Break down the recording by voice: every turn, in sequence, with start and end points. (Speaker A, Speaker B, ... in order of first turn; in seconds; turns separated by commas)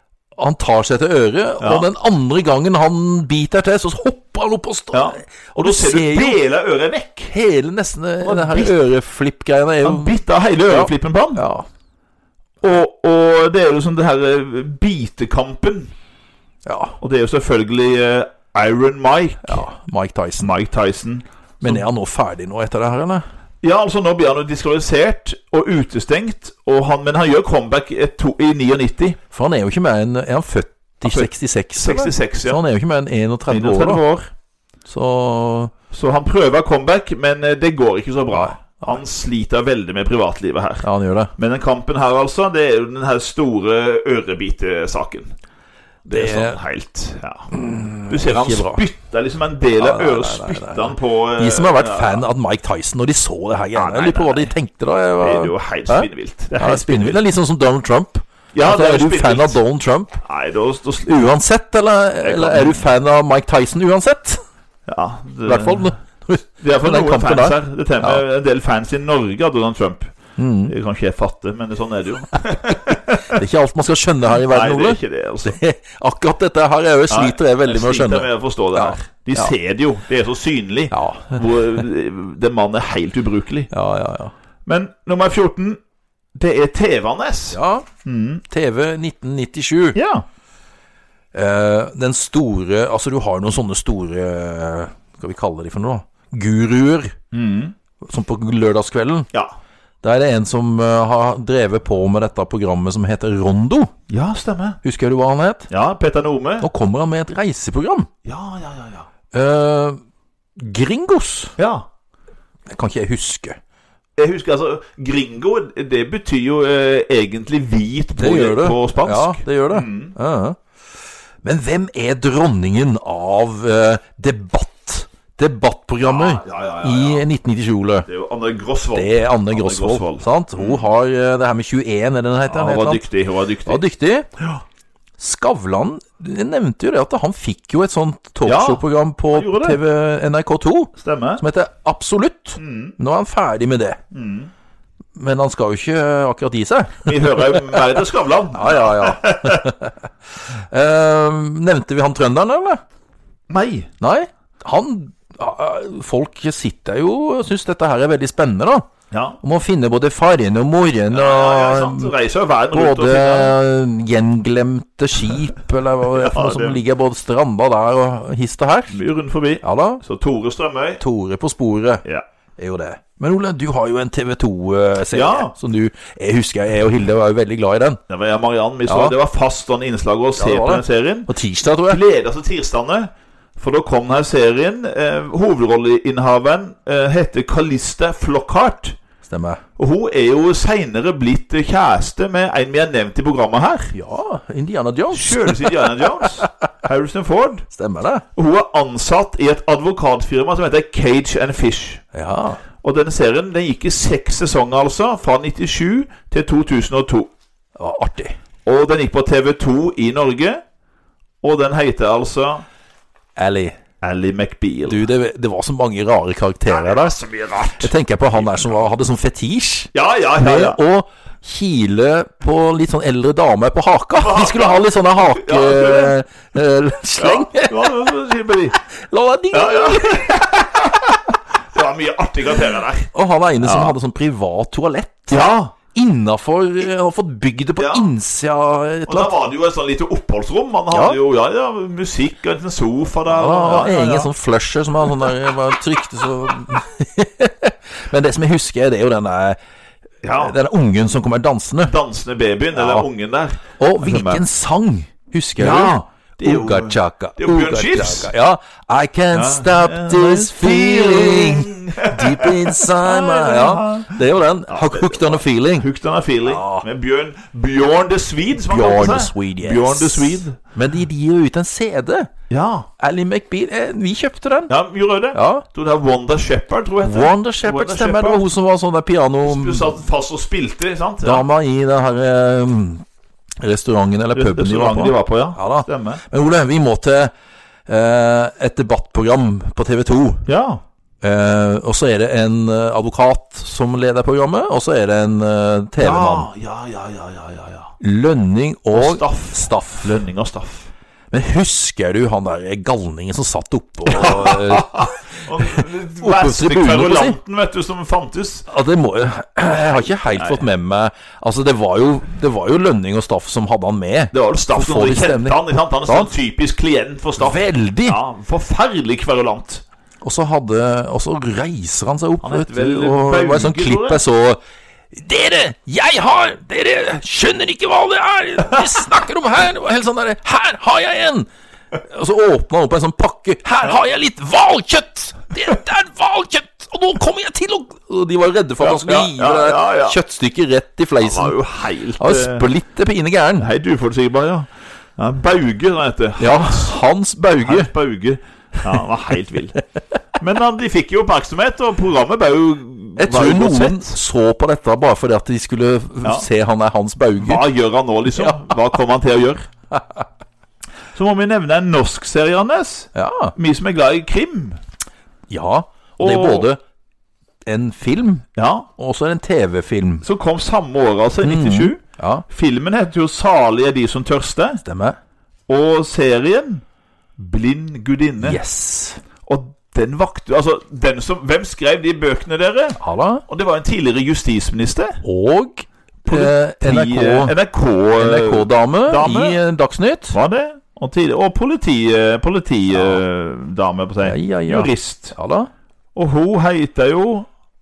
Speaker A: 0.4-6.4, Speaker B: 1.6-1.9, Speaker B: 4.9-7.3, Speaker A: 7.3-10.2, Speaker B: 8.2-8.8, Speaker B: 9.8-11.4, Speaker A: 10.7-11.7, Speaker B: 12.6-15.9, Speaker A: 16.7-17.0, Speaker B: 17.0-19.6, Speaker A: 19.4-20.5, Speaker B: 20.4-21.8, Speaker A: 21.6-23.2, Speaker B: 23.6-29.2, Speaker A: 29.3-34.0, Speaker B: 31.0-32.6, Speaker B: 33.5-34.3, Speaker A: 34.9-35.7, Speaker B: 35.9-40.9, Speaker A: 38.3-39.0, Speaker A: 40.8-41.3, Speaker B: 41.4-45.3, Speaker B: 46.1-47.5, Speaker A: 46.1-46.6, Speaker A: 47.5-48.8, Speaker B: 48.0-52.2, Speaker A: 49.8-60.2, Speaker B: 53.8-54.5, Speaker B: 55.2-57.2, Speaker B: 58.5-59.6, Speaker B: 60.2-61.2, Speaker A: 61.1-64.4, Speaker B: 62.2-62.9, Speaker B: 64.9-65.9, Speaker A: 65.5-68.2, Speaker B: 66.6-70.1, Speaker A: 70.4-70.7, Speaker B: 70.7-73.4, Speaker A: 73.2-79.5, Speaker B: 74.5-75.6, Speaker B: 77.1-83.7, Speaker A: 80.9-81.4, Speaker A: 83.7-84.3, Speaker B: 84.7-85.8, Speaker B: 86.3-88.4, Speaker A: 87.5-87.9, Speaker A: 88.5-90.0, Speaker B: 90.0-90.2, Speaker A: 91.3-97.2, Speaker B: 97.3-97.8, Speaker A: 98.0-99.3, Speaker A: 100.0-103.9, Speaker B: 104.1-104.8, Speaker A: 104.8-105.7, Speaker B: 105.7-106.7, Speaker A: 106.6-108.1, Speaker B: 108.2-109.1, Speaker A: 109.3-110.0, Speaker A: 110.6-111.6, Speaker B: 111.6-111.9, Speaker A: 112.7-113.6, Speaker B: 114.2-120.2, Speaker A: 118.2-120.6, Speaker A: 121.4-128.1, Speaker B: 126.0-127.2, Speaker B: 128.1-130.8, Speaker A: 128.9-133.1, Speaker B: 132.5-133.8, Speaker A: 133.7-134.3, Speaker A: 135.2-144.0, Speaker B: 138.4-139.8, Speaker B: 141.0-141.4, Speaker B: 142.6-143.0, Speaker B: 144.1-144.5, Speaker A: 145.2-147.8, Speaker B: 147.1-149.7, Speaker A: 148.5-152.8, Speaker B: 153.5-153.9, Speaker A: 154.0-158.9, Speaker B: 159.1-159.4, Speaker A: 159.4-162.1, Speaker B: 161.1-163.6, Speaker A: 162.7-169.0, Speaker B: 166.1-166.8, Speaker B: 168.9-171.0, Speaker A: 169.6-170.0, Speaker A: 171.0-172.0, Speaker A: 172.6-178.0, Speaker B: 175.1-175.5, Speaker B: 178.1-181.3, Speaker A: 178.9-179.2, Speaker A: 180.4-182.0, Speaker B: 181.9-189.0, Speaker A: 189.2-189.6, Speaker B: 189.8-193.9, Speaker A: 193.9-196.5, Speaker B: 195.1-197.7, Speaker A: 197.7-198.2, Speaker B: 198.3-202.0, Speaker A: 202.1-202.6, Speaker B: 202.8-207.3, Speaker A: 207.8-208.4, Speaker B: 208.7-210.6, Speaker B: 211.4-212.7, Speaker A: 213.4-213.8, Speaker B: 214.0-215.1, Speaker A: 214.9-217.2, Speaker B: 216.7-218.7, Speaker A: 217.8-227.9, Speaker B: 219.9-220.8, Speaker B: 224.2-226.2, Speaker B: 227.2-228.8, Speaker A: 229.1-230.4, Speaker B: 229.5-231.2, Speaker B: 231.7-233.1, Speaker A: 233.1-239.3, Speaker B: 233.6-233.9, Speaker B: 235.3-235.8, Speaker B: 237.8-238.1, Speaker B: 239.1-244.3, Speaker A: 240.9-241.2, Speaker A: 243.3-249.6, Speaker B: 250.2-250.6, Speaker A: 250.4-252.0, Speaker B: 251.9-254.4, Speaker A: 252.8-253.1, Speaker A: 253.8-265.9, Speaker B: 255.6-258.3, Speaker B: 259.3-270.6, Speaker A: 266.4-266.9, Speaker A: 268.7-272.3, Speaker B: 272.5-272.9, Speaker A: 273.0-274.7, Speaker B: 274.7-278.4, Speaker A: 275.3-275.7, Speaker A: 277.1-279.9, Speaker B: 279.4-281.4, Speaker A: 281.2-283.1, Speaker A: 283.6-287.3, Speaker B: 284.3-286.2, Speaker A: 287.9-290.5, Speaker B: 290.5-290.8, Speaker A: 291.2-296.5, Speaker B: 296.0-297.9, Speaker A: 298.0-300.2, Speaker B: 298.9-300.9, Speaker A: 301.3-307.4, Speaker B: 304.1-308.7, Speaker A: 308.7-316.3, Speaker B: 310.0-310.6, Speaker B: 314.3-319.8, Speaker A: 317.4-318.2, Speaker A: 320.2-324.6, Speaker B: 322.4-324.2, Speaker A: 325.1-331.5, Speaker A: 332.0-341.6, Speaker B: 338.8-340.2, Speaker B: 341.2-342.7, Speaker A: 342.2-343.7, Speaker B: 343.6-347.0, Speaker A: 346.4-347.9, Speaker B: 347.6-349.8, Speaker B: 350.4-354.2, Speaker A: 353.2-357.7, Speaker B: 357.4-359.6, Speaker A: 358.4-358.8, Speaker A: 359.9-360.2, Speaker B: 361.1-364.8, Speaker A: 363.1-363.6, Speaker A: 365.5-366.8, Speaker B: 366.2-366.7, Speaker A: 367.7-368.4, Speaker B: 368.6-368.9, Speaker A: 369.0-370.2, Speaker B: 370.2-374.8, Speaker A: 371.4-372.4, Speaker A: 374.8-375.2, Speaker B: 375.7-376.8, Speaker B: 377.4-378.6, Speaker A: 378.4-379.2, Speaker B: 379.5-385.2, Speaker A: 383.0-383.4, Speaker A: 385.2-387.6, Speaker B: 386.2-389.6, Speaker A: 388.2-390.4, Speaker B: 390.3-395.4, Speaker A: 392.9-393.2, Speaker A: 394.2-395.7, Speaker B: 396.1-397.5